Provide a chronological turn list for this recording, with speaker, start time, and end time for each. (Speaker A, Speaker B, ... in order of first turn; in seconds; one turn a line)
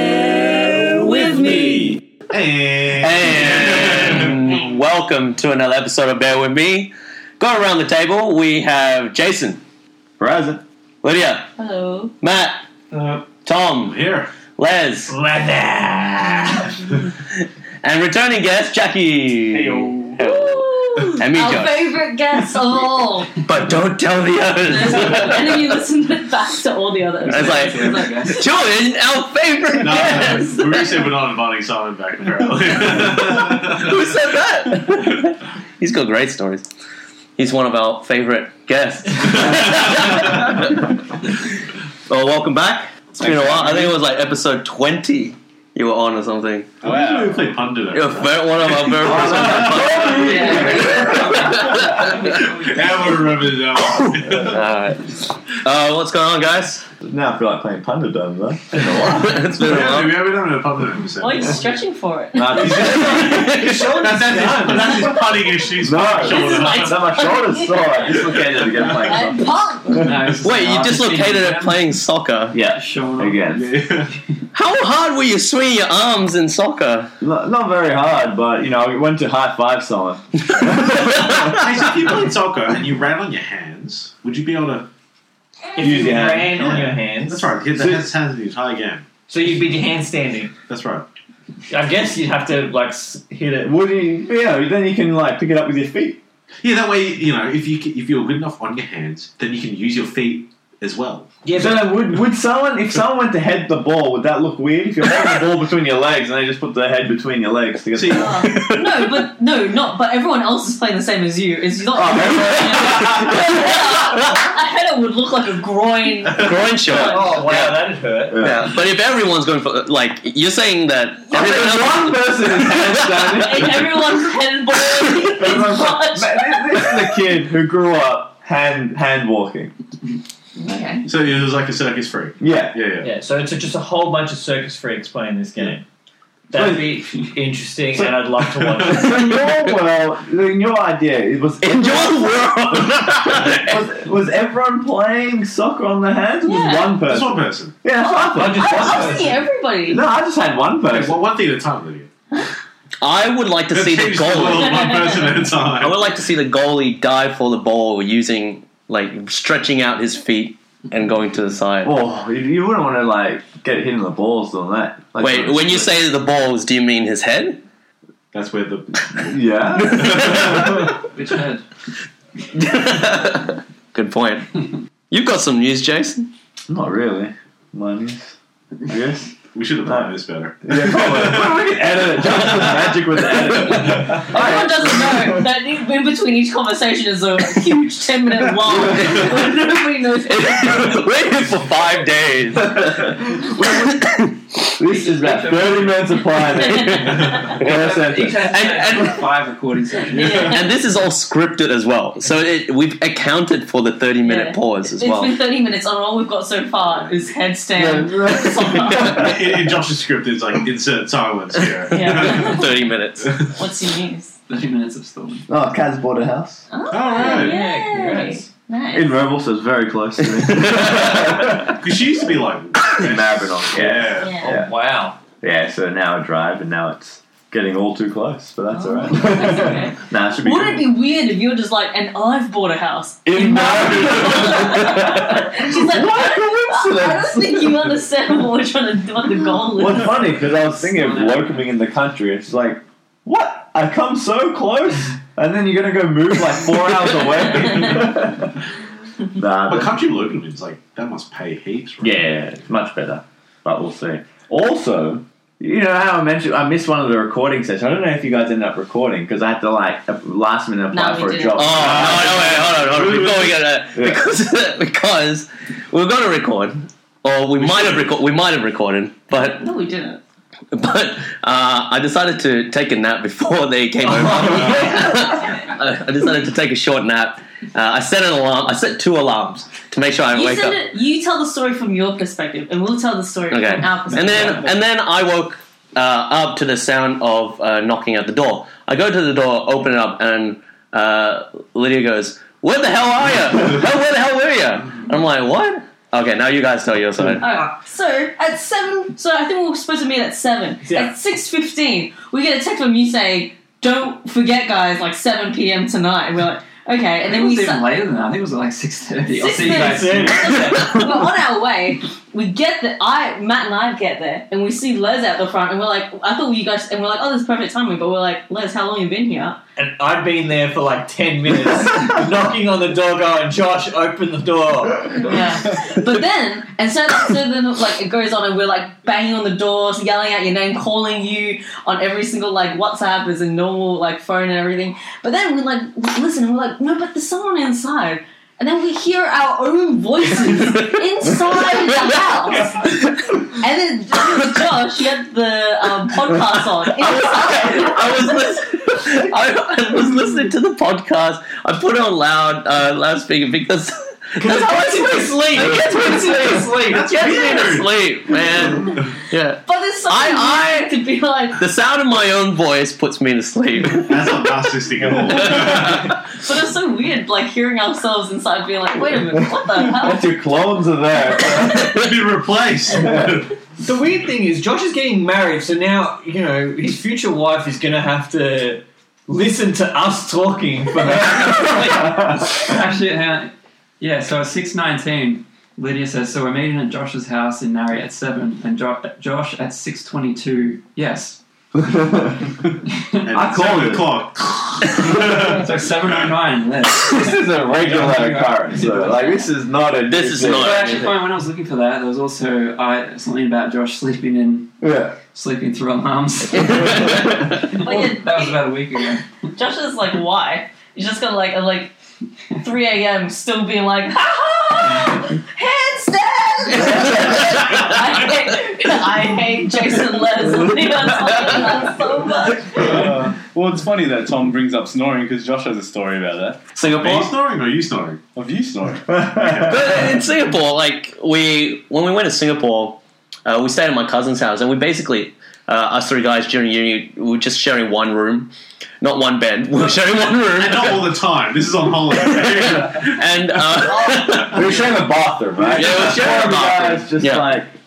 Speaker A: 0.6-1.9
Speaker B: 0.9-1.8
Speaker C: 1.2-4.4
Speaker A: 3.0-9.6
Speaker D: 10.2-10.6
Speaker A: 11.0-11.5
Speaker B: 11.6-12.1
Speaker A: 12.2-12.6
Speaker A: 13.2-14.0
Speaker C: 13.8-14.3
Speaker A: 14.6-15.1
Speaker E: 15.1-16.8
Speaker A: 17.8-21.9
Speaker F: 19.5-20.2
Speaker B: 20.2-23.3
Speaker A: 23.4-25.8
Speaker B: 24.6-28.5
Speaker G: 27.3-28.4
Speaker A: 27.3-30.9
Speaker C: 29.8-34.0
Speaker B: 29.9-30.5
Speaker A: 33.5-36.6
Speaker A: 37.4-40.9
Speaker C: 39.2-40.5
Speaker A: 42.1-46.7
Speaker F: 43.2-43.9
Speaker C: 46.8-50.8
Speaker F: 46.8-47.5
Speaker A: 47.9-52.3
Speaker D: 49.0-51.3
Speaker B: 50.1-51.5
Speaker G: 50.3-52.7
Speaker C: 52.6-54.6
Speaker A: 53.7-56.8
Speaker D: 57.0-59.4
Speaker A: 58.9-60.3
Speaker C: 59.5-61.7
Speaker B: 61.2-62.7
Speaker D: 62.3-63.5
Speaker C: 62.5-67.2
Speaker A: 62.6-63.7
Speaker E: 63.0-65.2
Speaker D: 65.8-69.5
Speaker B: 66.2-70.1
Speaker C: 68.2-68.6
Speaker G: 69.9-71.9
Speaker A: 70.4-72.6
Speaker D: 72.5-73.6
Speaker G: 72.6-73.6
Speaker C: 73.5-74.1
Speaker A: 74.5-77.1
Speaker D: 77.2-81.6
Speaker A: 81.0-81.5
Speaker C: 81.1-84.9
Speaker E: 85.8-87.5
Speaker D: 85.8-86.6
Speaker C: 86.5-89.0
Speaker D: 87.8-88.0
Speaker E: 89.3-90.5
Speaker C: 90.7-91.1
Speaker E: 91.7-93.7
Speaker D: 93.6-96.2
Speaker C: 96.6-101.3
Speaker E: 101.4-101.9
Speaker D: 101.6-108.5
Speaker C: 107.9-108.5
Speaker B: 108.1-117.5
Speaker A: 108.4-109.2
Speaker D: 111.9-113.7
Speaker A: 112.5-113.3
Speaker A: 116.3-117.8
Speaker E: 117.0-118.4
Speaker D: 118.3-118.8
Speaker A: 118.4-123.4
Speaker D: 121.3-124.0
Speaker B: 123.4-127.0
Speaker D: 125.3-129.7
Speaker B: 130.6-131.1
Speaker C: 131.0-133.1
Speaker D: 132.4-132.8
Speaker E: 133.0-135.8
Speaker E: 136.5-139.4
Speaker D: 136.5-136.9
Speaker C: 138.5-139.2
Speaker D: 138.8-149.3
Speaker A: 141.6-143.8
Speaker B: 146.4-147.0
Speaker C: 147.0-147.8
Speaker B: 148.0-150.0
Speaker E: 148.3-149.4
Speaker D: 149.9-151.2
Speaker C: 150.9-152.1
Speaker A: 153.0-155.0
Speaker C: 153.7-156.2
Speaker B: 154.7-155.1
Speaker A: 155.8-161.9
Speaker D: 161.8-165.9
Speaker A: 165.2-167.6
Speaker C: 168.3-169.4
Speaker D: 169.2-170.9
Speaker A: 169.8-170.7
Speaker C: 169.9-170.7
Speaker G: 171.1-171.6
Speaker A: 172.5-176.3
Speaker D: 176.7-178.3
Speaker D: 178.9-179.3
Speaker C: 179.5-181.7
Speaker D: 179.8-180.1
Speaker D: 180.6-185.5
Speaker B: 184.2-191.1
Speaker A: 188.7-189.6
Speaker D: 188.7-189.2
Speaker A: 190.2-194.3
Speaker D: 192.6-194.0
Speaker D: 194.7-198.5
Speaker G: 194.8-196.3
Speaker B: 196.5-197.6
Speaker A: 196.9-199.2
Speaker G: 197.4-200.6
Speaker B: 200.1-200.7
Speaker A: 200.2-205.3
Speaker B: 204.2-209.3
Speaker C: 206.8-207.3
Speaker D: 207.7-209.5
Speaker C: 209.1-213.2
Speaker A: 211.9-213.4
Speaker B: 211.9-212.7
Speaker B: 213.4-214.3
Speaker G: 214.5-215.5
Speaker D: 215.5-216.6
Speaker B: 216.7-219.2
Speaker C: 216.9-217.6
Speaker E: 217.2-218.4
Speaker D: 218.9-221.8
Speaker A: 220.4-221.3
Speaker C: 221.1-224.5
Speaker D: 222.8-224.7
Speaker B: 224.2-224.5
Speaker E: 224.4-225.2
Speaker D: 225.4-230.9
Speaker B: 228.7-240.3
Speaker D: 233.2-237.9
Speaker D: 239.8-248.6
Speaker G: 240.4-241.7
Speaker D: 249.3-250.0
Speaker C: 249.7-252.2
Speaker D: 252.0-264.3
Speaker B: 260.9-261.9
Speaker A: 261.5-269.7
Speaker C: 261.7-263.5
Speaker C: 267.6-268.1
Speaker B: 269.3-270.2
Speaker A: 270.7-280.8
Speaker E: 274.0-275.0
Speaker C: 274.4-274.9
Speaker B: 280.3-284.6
Speaker A: 283.5-297.4
Speaker B: 297.4-307.9
Speaker E: 300.8-301.1
Speaker G: 307.2-310.6
Speaker B: 309.3-319.6
Speaker E: 309.7-310.8
Speaker E: 319.8-325.4
Speaker B: 325.2-342.8
Speaker B: 343.5-348.2
Speaker A: 346.9-360.9
Speaker E: 354.4-357.6
Speaker D: 355.6-356.6
Speaker C: 356.8-358.0
Speaker C: 358.7-359.1
Speaker B: 359.6-361.6
Speaker A: 361.6-364.5
Speaker C: 363.9-366.0
Speaker A: 365.3-366.1
Speaker B: 366.3-370.3
Speaker D: 369.2-372.0
Speaker C: 371.7-373.5
Speaker D: 372.9-373.4
Speaker E: 373.8-382.3
Speaker G: 382.2-391.4
Speaker D: 391.8-392.6
Speaker G: 393.0-393.3
Speaker C: 393.2-395.7
Speaker D: 393.3-395.4
Speaker G: 395.0-399.5
Speaker D: 397.1-401.1
Speaker A: 400.1-401.2
Speaker G: 400.4-404.7
Speaker D: 404.8-405.2
Speaker G: 405.3-407.1
Speaker A: 406.5-407.6
Speaker D: 406.7-407.5
Speaker B: 407.8-408.6
Speaker G: 407.8-409.2
Speaker B: 409.6-411.9
Speaker B: 412.6-423.0
Speaker A: 416.7-418.3
Speaker D: 416.8-417.6
Speaker D: 420.5-421.1
Speaker F: 422.6-426.7
Speaker C: 426.8-428.2
Speaker F: 428.3-429.2
Speaker D: 429.1-429.9
Speaker C: 429.3-429.9
Speaker A: 429.6-441.1
Speaker C: 440.5-443.4
Speaker A: 442.1-444.8
Speaker D: 444.3-447.7
Speaker A: 445.7-447.6